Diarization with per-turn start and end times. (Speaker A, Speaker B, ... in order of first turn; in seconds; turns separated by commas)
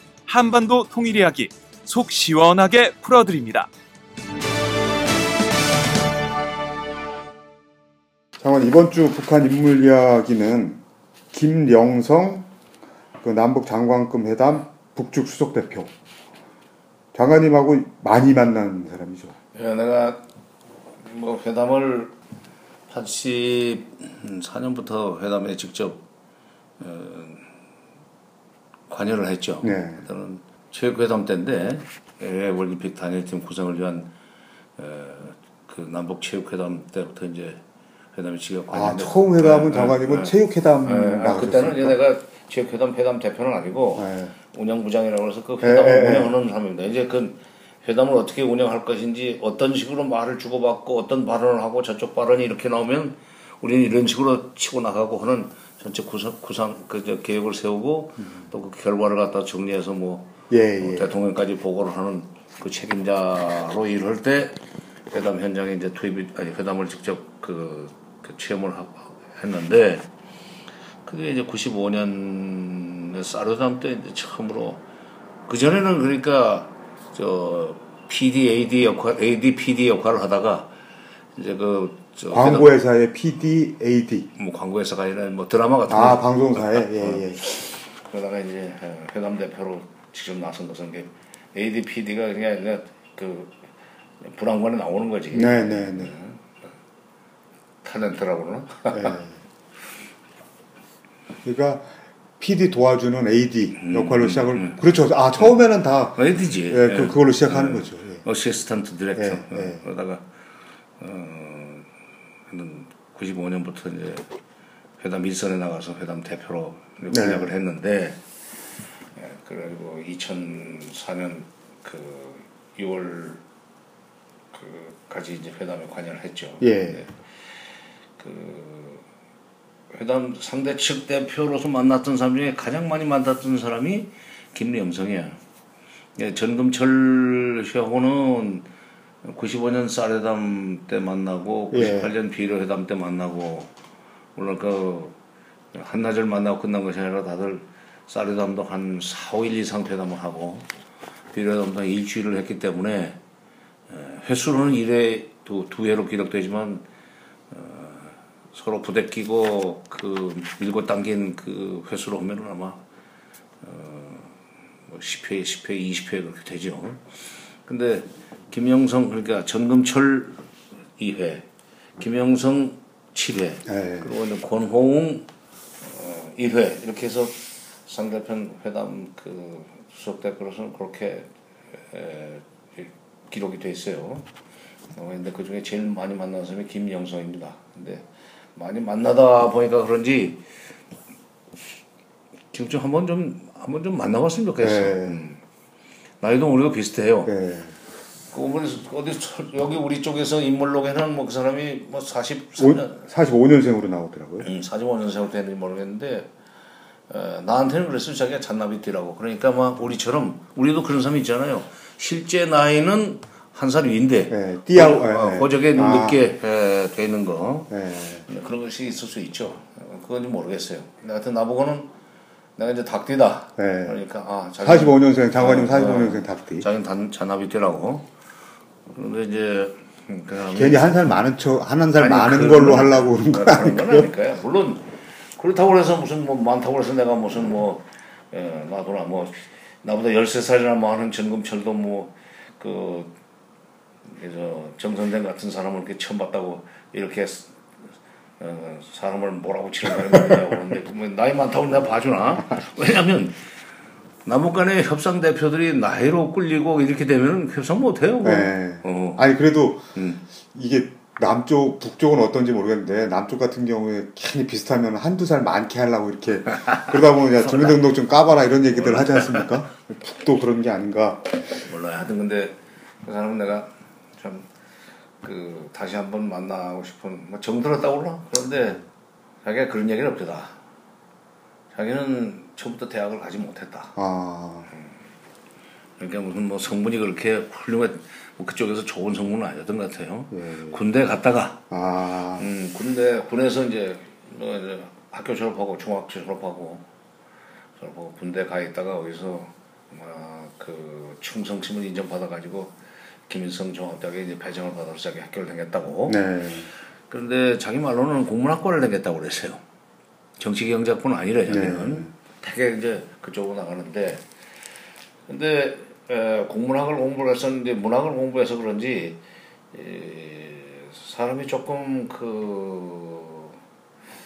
Speaker A: 0.3-3.7, Speaker B: 8.4-10.8, Speaker B: 11.3-12.5, Speaker B: 13.2-15.9, Speaker B: 17.1-19.4, Speaker C: 19.5-20.2, Speaker C: 21.0-22.1, Speaker C: 22.9-26.0, Speaker C: 26.8-27.5, Speaker C: 28.9-34.1, Speaker B: 29.6-30.1, Speaker C: 34.8-37.6, Speaker C: 38.1-64.6, Speaker B: 38.7-42.0, Speaker B: 44.0-44.3, Speaker B: 45.6-46.3, Speaker B: 60.5-61.1, Speaker C: 65.1-70.1, Speaker C: 71.0-74.8, Speaker C: 75.5-80.7, Speaker C: 81.4-82.8, Speaker B: 82.3-84.3, Speaker C: 84.3-93.7, Speaker B: 85.9-87.5, Speaker C: 94.2-96.5, Speaker B: 95.3-96.1, Speaker C: 97.8-99.2, Speaker B: 98.9-99.4, Speaker B: 101.4-108.2, Speaker C: 103.8-104.8, Speaker C: 106.2-110.2, Speaker B: 109.2-109.8, Speaker C: 111.0-111.9, Speaker C: 112.5-114.3, Speaker C: 115.0-118.2, Speaker B: 117.1-117.5, Speaker C: 119.1-123.4, Speaker C: 124.5-127.2, Speaker B: 126.6-127.0, Speaker C: 128.2-129.1, Speaker C: 129.9-135.4, Speaker C: 136.2-138.7, Speaker C: 139.2-143.7, Speaker B: 141.7-142.1, Speaker C: 144.4-145.2, Speaker C: 145.7-150.7, Speaker C: 151.3-153.2, Speaker C: 153.9-156.8, Speaker C: 157.5-162.8, Speaker C: 163.6-170.5, Speaker C: 171.0-171.5, Speaker C: 172.0-175.3, Speaker B: 173.7-174.1, Speaker C: 175.8-184.3, Speaker C: 184.9-190.5, Speaker C: 192.5-195.4, Speaker B: 194.6-195.2, Speaker C: 196.2-197.3, Speaker B: 197.3-197.8, Speaker C: 198.3-203.0, Speaker B: 202.6-204.5, Speaker C: 204.4-206.3, Speaker C: 207.1-221.9, Speaker B: 214.3-216.2, Speaker B: 217.7-218.2, Speaker C: 222.6-228.1, Speaker B: 223.6-224.0, Speaker B: 224.6-226.7, Speaker C: 228.9-231.2, Speaker B: 230.5-234.1, Speaker C: 232.0-243.1, Speaker C: 244.1-247.6, Speaker C: 248.4-253.4, Speaker C: 254.2-259.2, Speaker B: 258.2-271.6, Speaker C: 259.9-260.2, Speaker C: 267.5-267.8, Speaker C: 268.7-269.6, Speaker C: 271.5-274.5, Speaker C: 275.2-278.8, Speaker C: 279.4-280.6, Speaker C: 281.7-284.0, Speaker B: 284.0-284.7, Speaker C: 286.0-291.6, Speaker B: 290.3-290.8, Speaker B: 291.7-292.5, Speaker C: 292.4-296.9, Speaker C: 297.8-302.8, Speaker C: 303.3-306.2, Speaker B: 306.1-306.7, Speaker C: 307.1-309.6, Speaker C: 310.4-314.2, Speaker B: 311.5-312.1, Speaker C: 315.3-319.2, Speaker C: 319.7-323.6